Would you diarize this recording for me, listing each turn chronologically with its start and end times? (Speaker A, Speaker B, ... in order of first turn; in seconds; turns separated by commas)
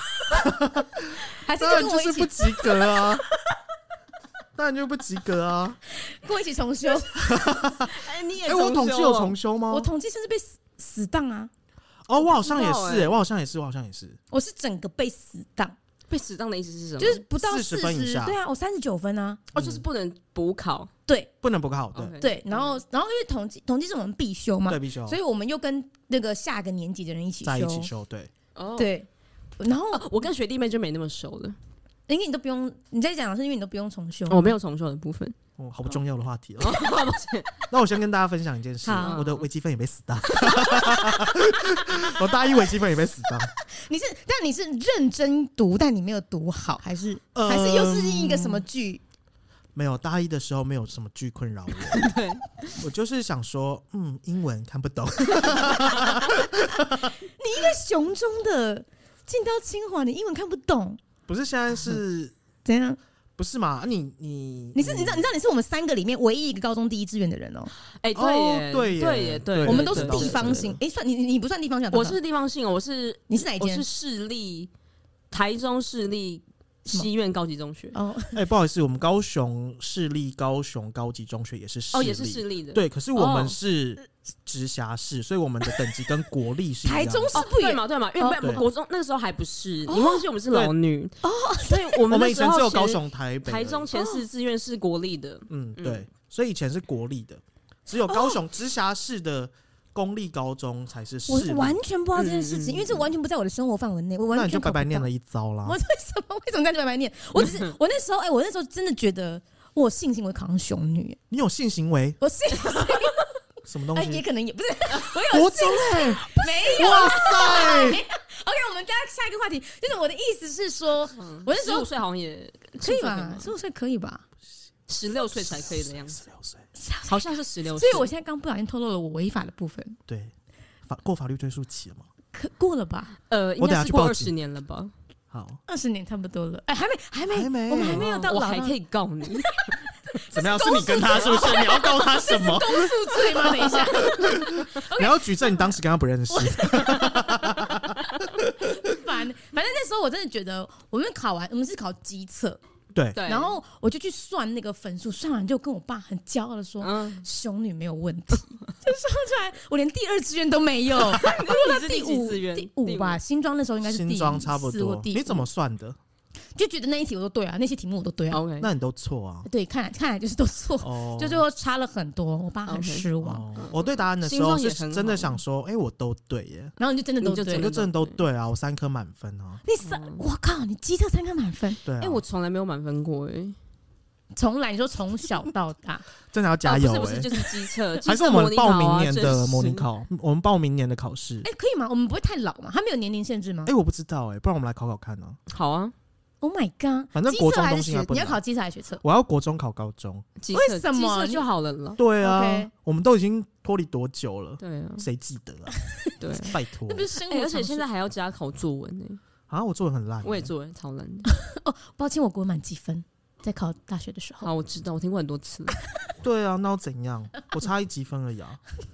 Speaker A: 0.3-3.2, Speaker B: 1.4-3.0, Speaker A: 4.5-5.8, Speaker B: 6.0-7.8, Speaker A: 7.1-9.9, Speaker C: 7.8-9.3, Speaker B: 9.7-11.5, Speaker A: 12.1-14.2, Speaker C: 12.3-13.2, Speaker B: 14.3-15.8, Speaker C: 16.1-17.2, Speaker B: 17.0-19.4, Speaker A: 17.4-18.4, Speaker A: 19.5-19.8, Speaker C: 19.5-20.9, Speaker A: 21.4-22.2, Speaker C: 21.9-22.8, Speaker B: 22.2-27.9, Speaker A: 24.7-25.2, Speaker A: 27.4-28.3, Speaker C: 28.5-28.9, Speaker B: 28.8-29.1, Speaker B: 29.6-30.1, Speaker C: 29.9-31.6, Speaker B: 32.1-34.5, Speaker C: 34.3-35.3, Speaker A: 35.6-36.9, Speaker C: 36.6-37.5, Speaker A: 37.7-43.5, Speaker B: 38.8-39.2, Speaker C: 39.0-39.4, Speaker B: 40.5-41.3, Speaker B: 43.8-49.0, Speaker A: 47.3-48.6, Speaker A: 49.7-52.1, Speaker C: 51.9-52.7, Speaker A: 52.8-57.1, Speaker B: 56.8-61.0, Speaker A: 61.3-62.3, Speaker B: 62.6-63.0, Speaker A: 63.4-65.3, Speaker B: 64.7-67.7, Speaker C: 68.0-70.7, Speaker A: 68.1-70.8, Speaker B: 69.6-72.2, Speaker C: 71.9-74.7, Speaker B: 73.3-73.8, Speaker C: 75.3-77.9, Speaker B: 77.9-78.4, Speaker A: 78.3-87.4, Speaker C: 81.9-83.5, Speaker B: 86.8-88.6, Speaker C: 87.3-96.1, Speaker B: 89.9-90.2, Speaker B: 91.2-92.0, Speaker A: 92.1-93.9, Speaker B: 93.9-94.2, Speaker A: 95.5-101.8, Speaker B: 101.3-105.1, Speaker C: 102.1-103.0, Speaker A: 104.3-105.8, Speaker B: 105.6-111.2, Speaker C: 107.4-107.7, Speaker A: 111.3-112.2, Speaker B: 112.2-113.2, Speaker A: 113.7-114.2, Speaker B: 113.9-121.9, Speaker A: 115.3-118.0, Speaker C: 121.1-123.5, Speaker B: 122.8-124.2, Speaker C: 124.9-126.2, Speaker A: 125.3-126.6, Speaker B: 126.8-130.0, Speaker C: 127.1-128.1, Speaker A: 130.1-130.3, Speaker A: 130.9-132.1, Speaker B: 132.3-133.1, Speaker C: 133.3-134.9, Speaker A: 133.6-134.3, Speaker A: 135.3-135.6, Speaker B: 135.7-138.8, Speaker A: 137.3-138.0, Speaker C: 137.8-139.6, Speaker B: 139.4-145.7, Speaker A: 140.3-148.5, Speaker B: 146.3-152.6, Speaker A: 152.9-153.2, Speaker C: 153.1-153.6, Speaker B: 153.2-165.5, Speaker C: 156.8-157.2, Speaker C: 161.1-163.2, Speaker A: 163.8-166.0, Speaker B: 166.6-168.4, Speaker C: 168.3-168.7, Speaker A: 168.6-169.5, Speaker B: 169.4-173.5, Speaker A: 170.8-171.4, Speaker C: 172.7-175.4, Speaker A: 173.2-176.7, Speaker B: 176.8-177.7, Speaker C: 177.2-178.2, Speaker A: 177.5-179.6, Speaker B: 179.6-181.8, Speaker C: 179.8-180.2, Speaker A: 181.8-182.2, Speaker C: 182.0-183.6, Speaker B: 184.3-186.0, Speaker A: 186.3-187.3, Speaker C: 186.6-189.9, Speaker A: 188.0-191.5, Speaker B: 191.4-193.7, Speaker A: 193.7-195.4, Speaker C: 195.5-195.9, Speaker B: 196.4-199.0, Speaker A: 197.1-198.4, Speaker A: 199.0-200.3, Speaker C: 200.4-202.0, Speaker B: 200.5-201.4, Speaker A: 202.0-205.8, Speaker B: 202.2-202.7, Speaker C: 204.6-205.1, Speaker C: 206.2-206.6, Speaker A: 206.5-207.1, Speaker B: 206.9-207.8, Speaker C: 207.1-209.2, Speaker A: 209.5-210.5, Speaker C: 210.2-211.3, Speaker B: 211.3-214.5, Speaker C: 214.4-215.8, Speaker A: 216.2-218.6